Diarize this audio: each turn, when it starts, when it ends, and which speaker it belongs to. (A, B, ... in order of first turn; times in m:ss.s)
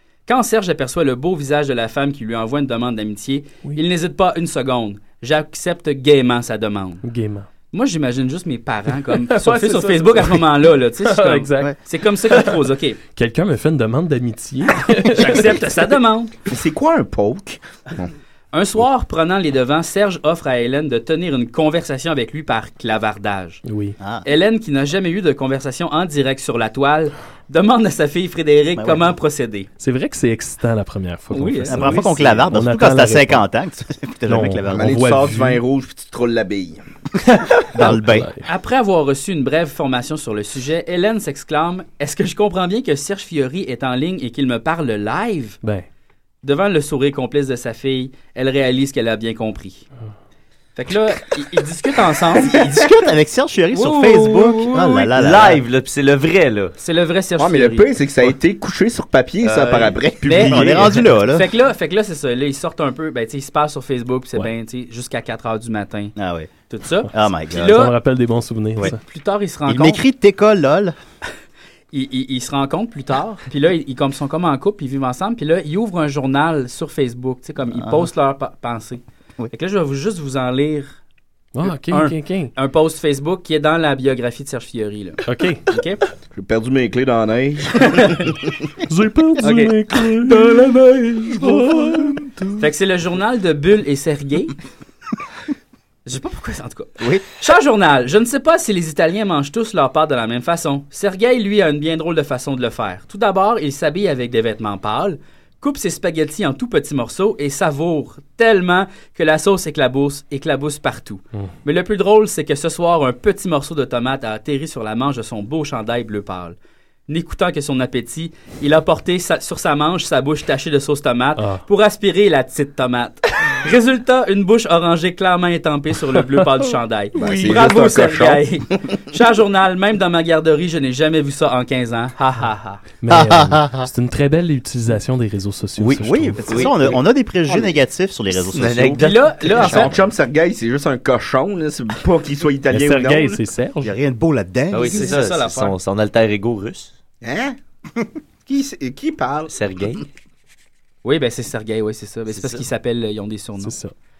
0:00.3-0:07.0 A
0:07.0-0:07.5 B
0:07.7-0:13.0 A
0:09.2-0:10.4 B
0:11.0-0:11.7 B
0:13.1-0:15.6 B
0:15.1-0:16.3 A
0:16.5-0:18.1 C
0:18.5-0:23.6 A
0:23.6-0:23.9 B
0:24.0-0:24.2 D
0:24.2-0:29.7 A
0:28.8-0:29.1 D
0:29.8-0:33.4 B
0:31.3-0:32.4 A
0:31.7-0:35.0 D
0:34.3-0:35.6 B
0:34.6-0:36.8 C
0:37.7-0:38.4 B
0:37.8-0:38.3 D
0:38.4-0:45.6 A
0:46.4-0:49.9 A
0:50.8-0:52.8 A
0:52.4-0:55.6 D
0:53.7-0:55.1 A
0:55.1-0:56.7 E
0:56.8-0:57.9 A
0:57.4-1:00.9 C
0:59.4-1:06.1 A
1:00.4-1:01.5 D
1:06.2-1:06.5 D
1:06.7-1:07.9 A
1:07.1-1:07.8 D
1:07.6-1:09.0 B
1:08.8-1:10.0 A
1:09.7-1:10.9 D
1:11.9-1:21.0 A
1:17.8-1:18.0 D
1:21.5-1:22.5 B
1:21.6-1:26.0 A
1:25.2-1:25.6 B
1:26.3-1:28.3 C
1:28.9-1:30.7 B
1:29.4-1:29.8 A
1:30.2-1:32.0 C
1:31.4-1:32.5 B
1:32.6-1:34.5 A
1:36.0-1:56.6 A
1:57.1-2:12.8 A
2:01.4-2:01.6 B
2:07.1-2:08.9 C
2:13.0-2:16.5 B
2:13.1-2:13.9 D
2:15.8-2:19.1 D
2:16.5-2:17.0 E
2:18.4-2:19.9 E
2:19.0-2:20.0 A
2:19.5-2:23.4 C
2:22.7-2:23.9 B
2:23.8-2:25.2 D
2:24.7-2:25.8 A
2:24.7-2:26.9 E
2:27.2-2:27.6 C
2:28.4-2:29.5 C
2:29.5-2:30.0 E
2:31.0-2:33.7 A
2:32.3-2:32.6 E
2:33.6-2:33.9 B